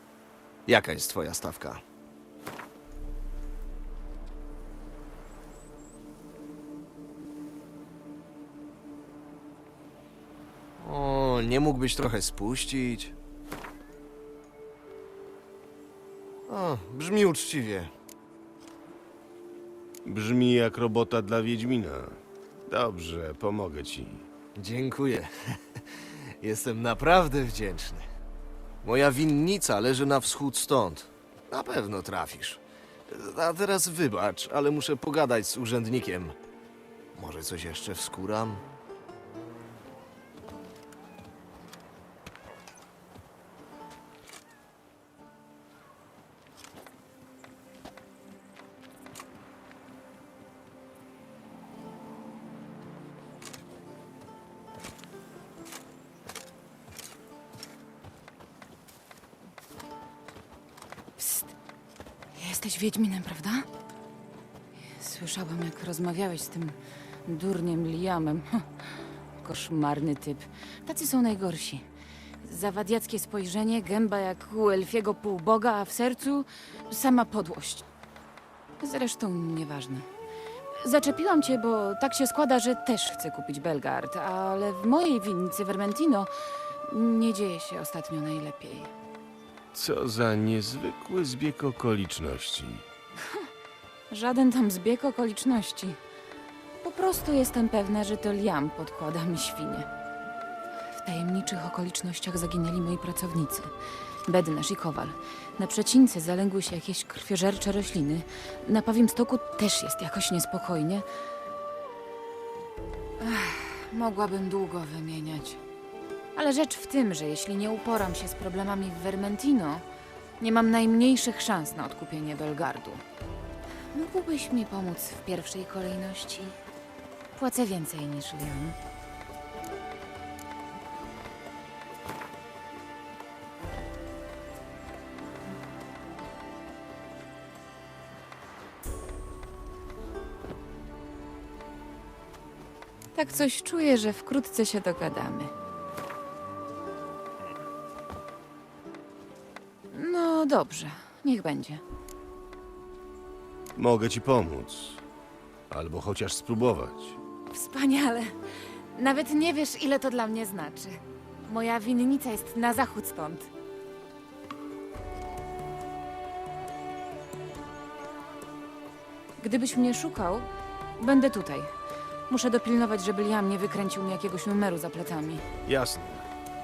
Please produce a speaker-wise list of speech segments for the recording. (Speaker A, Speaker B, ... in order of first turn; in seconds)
Speaker A: 0.7-1.8, 10.8-13.2, 16.5-17.9, 24.6-28.1, 28.8-36.4, 37.1-38.6
Speaker B: 20.1-24.2, 89.7-92.8, 153.8-155.0, 155.7-157.2, 175.7-176.3
Speaker C: 61.2-61.5, 62.3-63.7, 64.9-68.7, 69.4-71.8, 72.4-77.8, 78.8-80.1, 80.8-86.3, 86.9-88.9, 94.1-96.0, 96.8-99.9, 101.0-103.7, 104.2-111.0, 113.2-115.6, 116.3-119.8, 120.4-123.0, 123.9-126.6, 127.3-128.8, 143.1-145.5, 149.9-151.8, 157.5-158.3, 158.9-163.5, 169.4-171.7, 172.3-175.4